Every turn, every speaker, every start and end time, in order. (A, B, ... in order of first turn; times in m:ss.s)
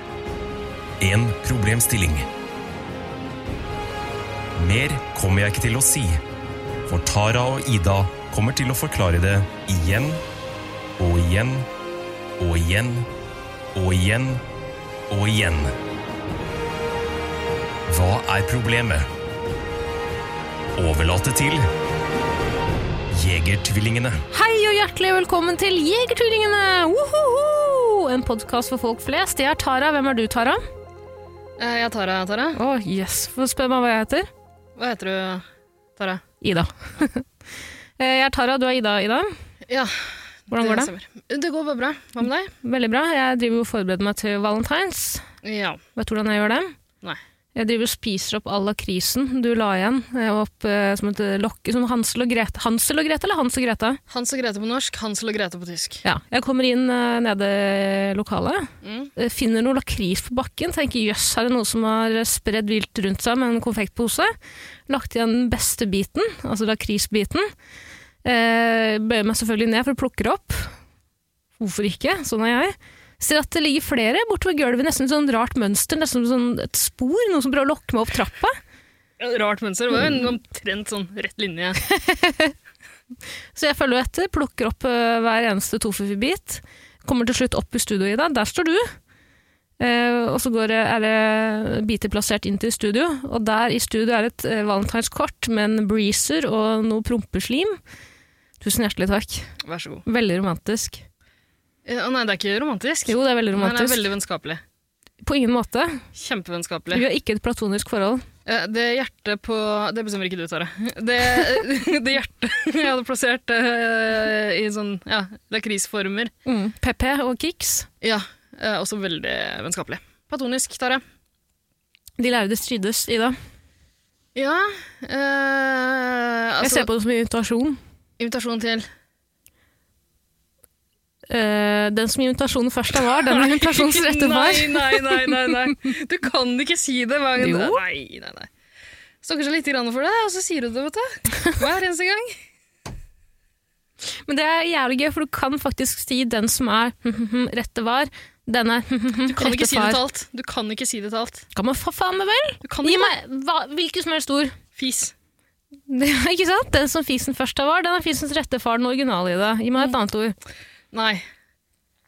0:01.0-0:02.3 A
0:04.6-0:06.2 A
0:06.9-0:10.2 A
0:11.0-0:11.7 A
0:12.4-0:13.1 A
0:13.7-0:14.4 A
0:15.1-0:15.7 A
0:17.9-0:19.1 A
0:20.8-0:21.7 A
0:23.1-0:24.2 A
0:24.3-0:30.6 B
0:31.6-0:32.6 C
0:32.6-0:34.3 B
0:34.8-0:35.4 C
0:36.0-0:36.2 C
0:36.4-0:37.3 B
0:38.0-0:39.3 B
0:39.7-0:40.0 C
0:40.5-0:42.5 C
0:40.5-0:40.9 B
0:42.6-0:45.3 B
0:45.4-0:45.8 C
0:46.0-0:46.7 B
0:47.6-0:54.0 B
0:54.1-0:56.0 C
0:56.0-1:04.3 B
0:58.8-0:59.1 C
1:04.9-1:07.5 B
1:08.2-1:10.7 B
1:11.6-1:18.6 B
1:19.2-1:21.8 C
1:21.8-1:22.5 B
1:23.6-1:28.9 B
1:29.8-1:37.8 B
1:38.6-1:39.5 B
1:39.6-1:40.0 C
1:40.0-1:41.0 B
1:41.9-1:44.6 C
1:43.1-1:44.0 B
1:45.2-1:46.0 B
1:46.2-1:47.0 C
1:46.9-1:48.3 B
1:48.5-1:56.3 C
1:56.5-1:57.9 B
1:58.0-2:01.0 C
2:02.2-2:03.4 B
2:04.4-2:06.9 C
2:06.6-2:07.8 B
2:08.2-2:08.9 C
2:11.3-2:15.5 B
2:13.1-2:18.5 C
2:17.4-2:17.8 B
2:19.2-2:22.4 C
2:24.3-2:30.0 B
2:29.3-2:31.5 C
2:31.6-2:34.6 B
2:32.6-2:33.1 C
2:34.8-2:35.1 C
2:35.9-2:40.4 B
2:40.9-2:41.2 C